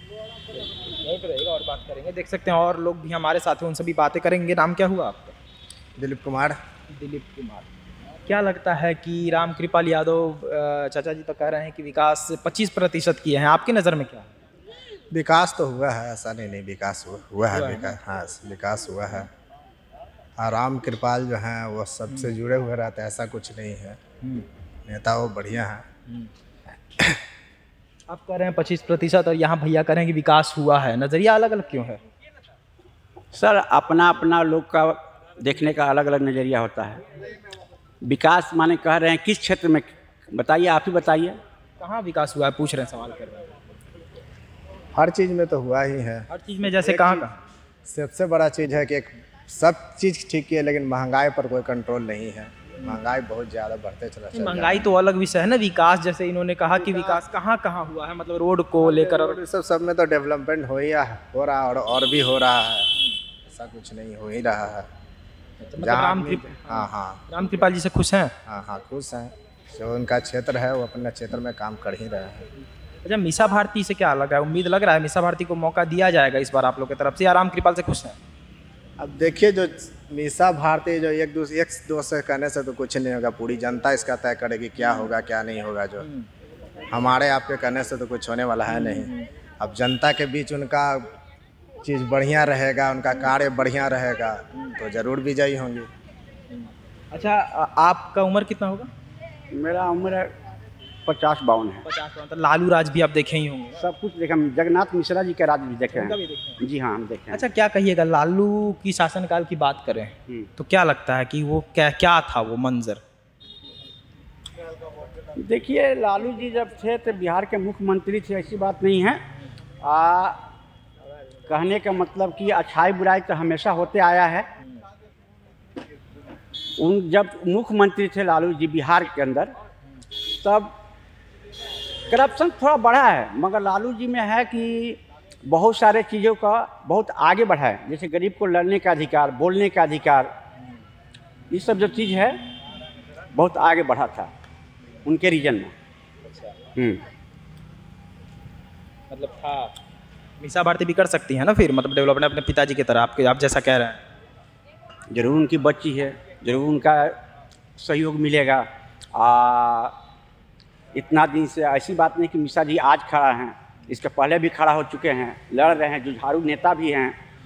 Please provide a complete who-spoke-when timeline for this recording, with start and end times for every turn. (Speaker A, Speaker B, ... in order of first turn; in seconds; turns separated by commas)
Speaker A: 0.9-5.3, Speaker B: 6.0-6.6, Speaker A: 6.9-7.7, Speaker A: 8.3-14.3, Speaker B: 15.1-19.3, Speaker A: 17.5-18.0, Speaker B: 20.4-24.0, Speaker B: 24.9-25.9, Speaker A: 28.1-32.0, Speaker C: 33.3-37.0, Speaker C: 38.0-41.4, Speaker A: 41.8-43.6, Speaker B: 44.9-47.3, Speaker A: 46.3-47.4, Speaker B: 47.9-54.9, Speaker A: 54.3-59.4, Speaker B: 56.7-57.2, Speaker B: 58.8-62.9, Speaker B: 63.5-64.9, Speaker A: 65.6-68.3, Speaker B: 65.8-67.2, Speaker B: 68.5-72.5, Speaker A: 73.0-78.2, Speaker B: 79.0-86.1, Speaker A: 84.8-85.1, Speaker A: 86.0-86.3, Speaker B: 86.9-91.1, Speaker A: 88.7-89.3, Speaker B: 91.8-95.9, Speaker A: 96.5-98.9, Speaker C: 99.5-100.3, Speaker C: 101.0-101.8, Speaker A: 101.8-103.9, Speaker C: 103.8-107.4, Speaker A: 105.9-106.6, Speaker A: 107.3-113.0, Speaker C: 115.3-119.2, Speaker C: 119.8-120.4, Speaker C: 121.5-124.5, Speaker C: 126.8-129.5, Speaker C: 130.2-130.7, Speaker C: 132.1-140.3, Speaker C: 141.5-142.4, Speaker C: 143.3-144.3, Speaker C: 145.0-145.7, Speaker A: 146.2-146.6, Speaker C: 146.7-147.0, Speaker A: 149.1-149.7, Speaker A: 150.4-154.0, Speaker C: 155.1-157.2, Speaker C: 157.8-159.9, Speaker C: 160.9-167.2